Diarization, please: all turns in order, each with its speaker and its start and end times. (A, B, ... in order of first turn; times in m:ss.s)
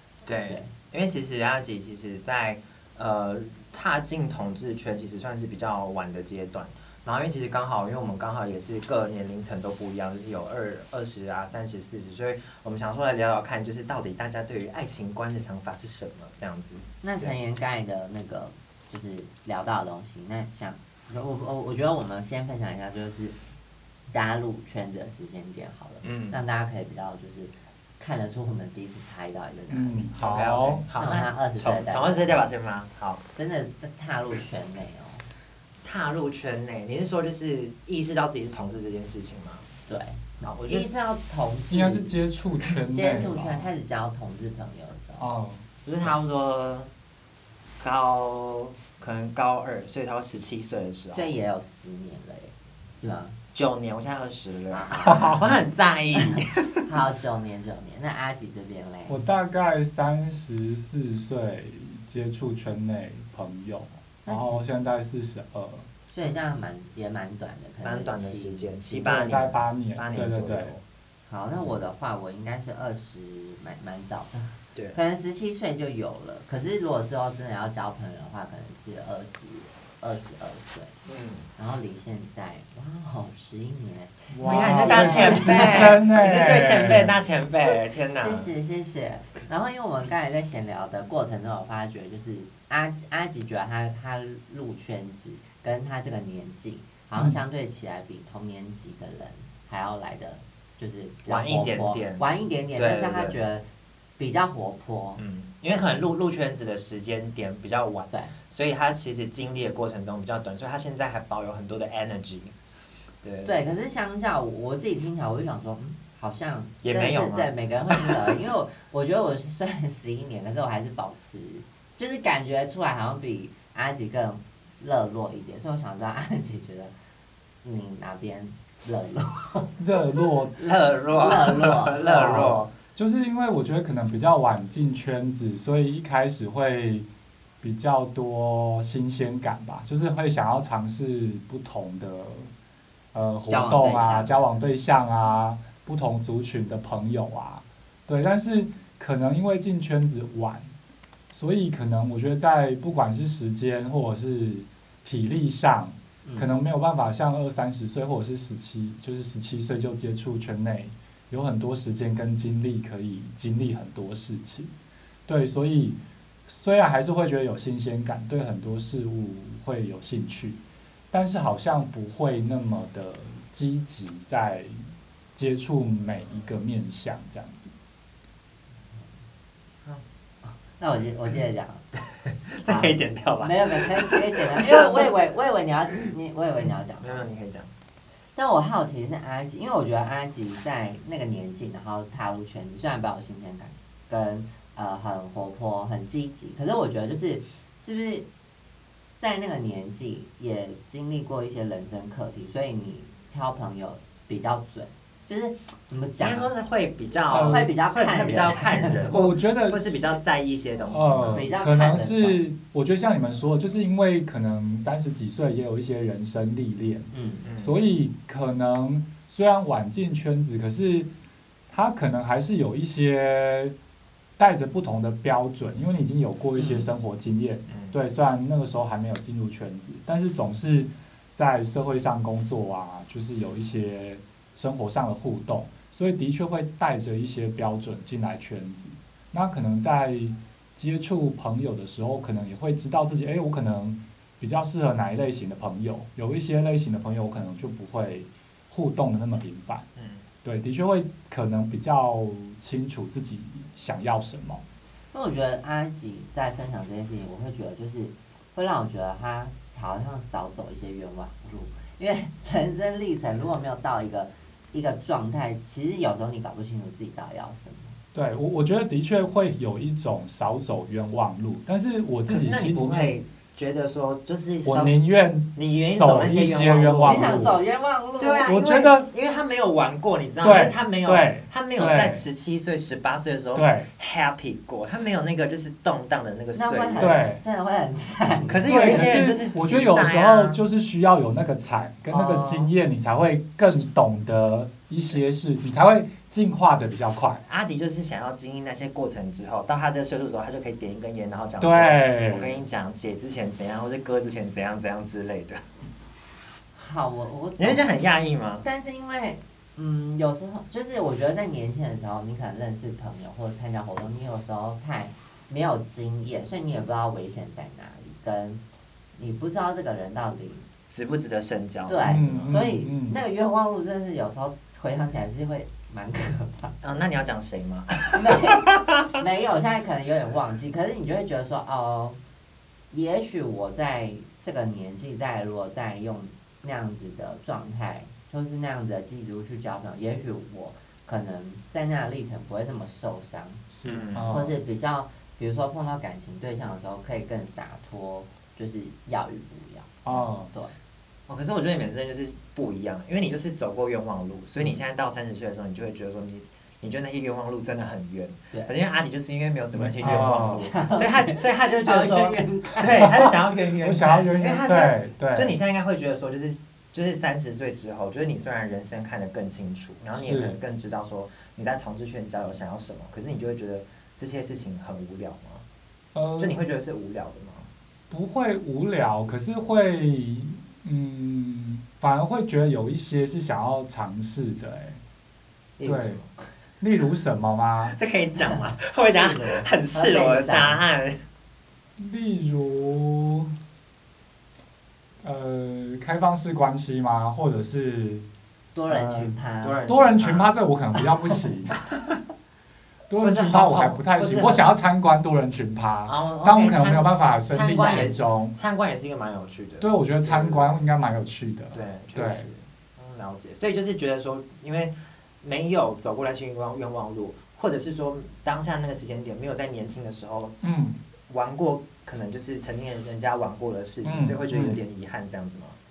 0:00.2-0:17.3 A
0:00.4-0:00.7 B
0:17.0-0:23.4 B
0:24.1-0:30.1 B
0:26.0-0:26.4 A
0:29.7-0:30.8 C
0:30.2-0:33.2 A
0:30.9-0:32.4 B
0:33.3-0:35.2 B
0:35.8-0:39.6 A
0:39.9-0:42.2 B
0:40.4-0:40.9 A
0:41.7-0:43.7 C
0:42.9-0:45.2 B
0:45.2-0:45.6 C
0:45.8-0:46.9 A
0:47.8-0:51.3 A
0:51.1-0:53.4 B
0:53.5-0:56.7 A
0:54.7-0:55.3 B
0:55.0-0:55.5 C
0:56.3-0:59.2 B
0:59.1-1:05.9 C
1:04.2-1:04.8 B
1:06.1-1:09.4 B
1:07.8-1:10.8 A
1:09.0-1:10.8 C
1:11.3-1:20.9 B
1:21.1-1:21.5 A
1:21.6-1:25.9 B
1:24.3-1:27.2 C
1:24.4-1:28.5 A
1:28.2-1:43.6 B
1:41.2-1:43.4 A
1:44.2-1:45.2 B
1:45.2-1:52.5 A
1:53.2-1:53.6 A
1:53.4-2:06.9 B
1:56.8-1:58.3 A
2:07.6-2:09.7 B
2:09.8-2:10.6 C
2:10.6-2:12.7 A
2:11.1-2:12.6 B
2:12.1-2:17.1 C
2:17.6-2:22.5 C
2:23.1-2:30.7 C
2:23.5-2:24.4 B
2:31.3-2:44.7 C
2:36.2-2:36.5 B
2:45.3-2:50.6 C
2:51.1-2:54.8 C
2:55.4-2:57.7 C
3:00.4-3:01.8 B
3:02.2-3:05.1 A
3:02.6-3:07.3 B
3:07.0-3:07.7 A
3:08.4-3:18.2 B
3:19.2-3:26.5 B
3:26.2-3:31.5 A
3:27.3-3:27.7 C
3:27.5-3:29.1 B
3:29.1-3:30.0 C
3:30.9-3:41.1 C
3:31.3-3:32.4 B
3:37.1-3:37.5 B
3:37.4-3:37.8 A
3:41.7-3:43.7 C
3:44.4-4:09.8 C
3:46.6-3:46.9 A
3:47.7-3:48.0 A
4:10.0-4:10.2 A
4:10.4-4:14.6 C
4:15.1-4:28.0 B
4:28.1-4:33.2 C
4:32.3-4:35.0 A
4:34.6-4:37.6 C
4:35.5-4:37.5 A
4:37.0-4:38.5 B
4:38.2-4:47.2 A
4:38.4-4:39.1 C
4:40.4-4:42.3 C
4:43.5-4:43.9 C
4:46.5-4:49.2 B
4:47.0-4:47.4 C
4:48.5-4:50.6 A
4:48.7-4:57.4 C
4:52.1-4:52.7 A
4:57.5-5:05.6 A
5:01.6-5:02.6 C
5:06.7-5:07.8 B
5:07.6-5:08.6 A
5:08.6-5:18.6 B
5:19.2-5:20.7 B
5:20.9-5:22.6 A
5:21.8-5:26.7 B
5:22.0-5:23.2 C
5:26.8-5:29.1 A
5:28.1-5:32.2 B
5:32.9-5:43.7 B
5:43.7-5:44.6 C
5:43.8-5:44.4 A
5:44.3-5:50.7 B
5:50.0-5:50.5 C
5:51.3-6:15.6 A
5:59.8-6:00.7 C
6:00.0-6:03.1 B
6:03.0-6:05.6 C
6:10.2-6:10.6 C
6:16.1-6:16.6 C
6:16.4-6:17.7 A
6:18.1-6:25.0 C
6:25.8-6:26.3 A
6:25.8-6:26.2 C
6:26.8-6:28.0 C
6:27.8-6:31.2 A
6:28.4-6:30.8 B
6:32.0-6:33.5 C
6:35.2-6:38.2 C
6:38.7-6:39.8 B
6:38.9-6:39.3 C
6:39.6-6:40.5 A
6:39.9-6:41.8 C
6:43.1-6:48.5 C
6:43.2-6:44.6 A
6:46.0-6:50.8 A
6:49.8-6:52.5 C
6:51.7-7:00.6 A
7:00.6-7:01.0 C
7:01.3-7:05.8 A
7:04.0-7:04.8 C